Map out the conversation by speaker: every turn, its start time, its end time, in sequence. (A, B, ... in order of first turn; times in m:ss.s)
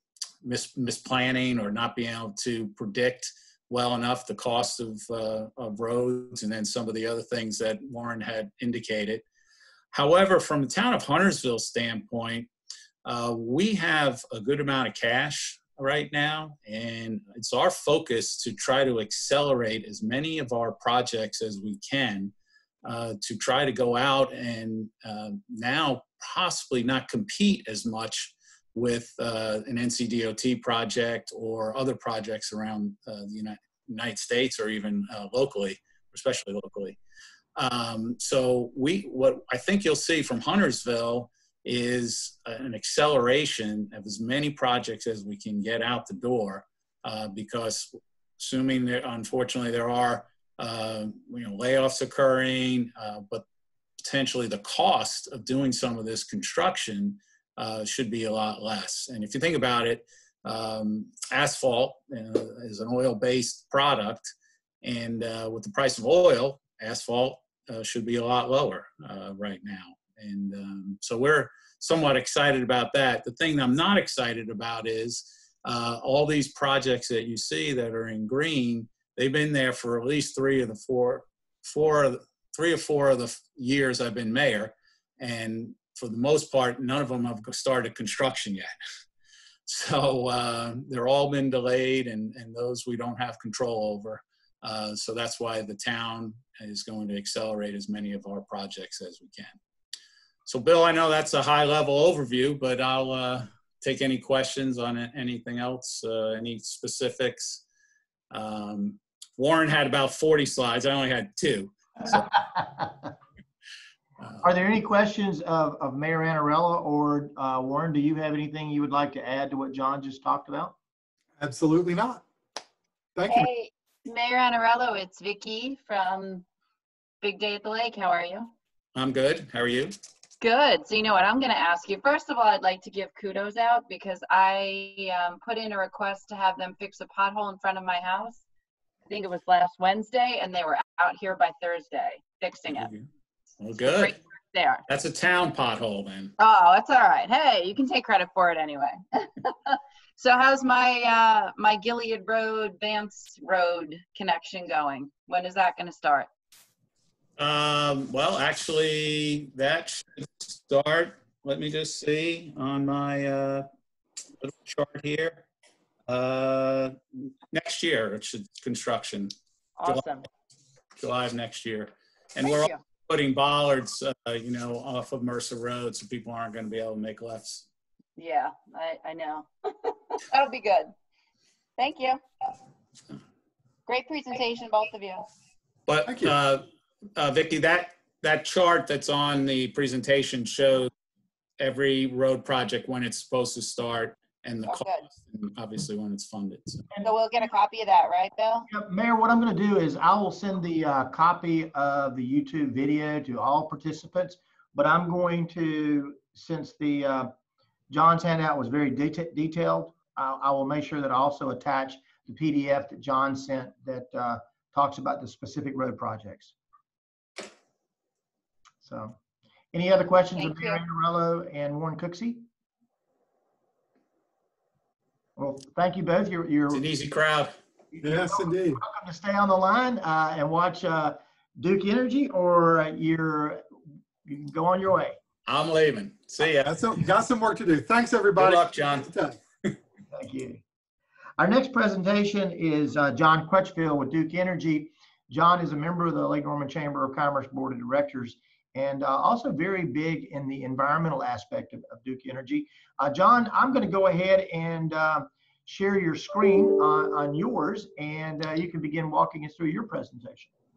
0:00.4-0:09.2 A
0:09.9-0:12.5 A
0:13.0-0:22.3 A
0:22.8-0:37.0 A
0:37.6-0:53.4 A
0:54.0-1:28.7 A
1:29.6-1:39.6 A
1:40.4-1:47.6 A
1:48.3-1:52.2 A
1:52.5-1:52.9 B
1:54.4-2:00.7 B
2:01.4-2:02.2 C
2:03.2-2:03.5 C
2:03.3-2:06.4 D
2:07.2-2:08.5 D
2:08.9-2:10.0 A
2:10.4-2:18.4 D
2:19.1-2:22.9 D
2:22.7-2:23.1 A
2:23.6-2:24.2 A
2:23.9-2:24.8 D
2:24.9-2:26.3 A
2:26.4-2:36.3 D
2:37.4-2:43.6 A
2:44.4-2:45.4 A
2:46.1-2:47.0 A
2:47.5-2:49.3 A
2:49.8-2:50.2 D
2:49.8-2:50.2 A
2:51.0-2:57.6 A
2:52.4-2:52.8 D
2:58.2-3:00.9 D
3:01.8-3:02.2 D
3:03.9-3:05.3 D
3:05.9-3:06.6 A
3:06.0-3:06.3 C
3:07.2-3:10.9 A
3:11.6-3:16.9 A
3:14.7-3:15.0 D
3:17.0-3:18.7 D
3:18.7-3:27.3 B
3:27.9-3:36.5 B
3:38.8-3:39.1 B
3:39.7-3:42.4 B
3:40.4-3:40.8 D
3:45.4-3:46.8 B
3:46.7-3:47.6 A
3:47.9-3:53.6 B
3:48.0-3:48.8 C
3:54.2-3:55.2 B
3:55.4-3:56.7 A
3:56.6-3:59.4 C
3:58.4-3:59.1 A
4:00.1-4:00.6 B
4:01.4-4:20.5 B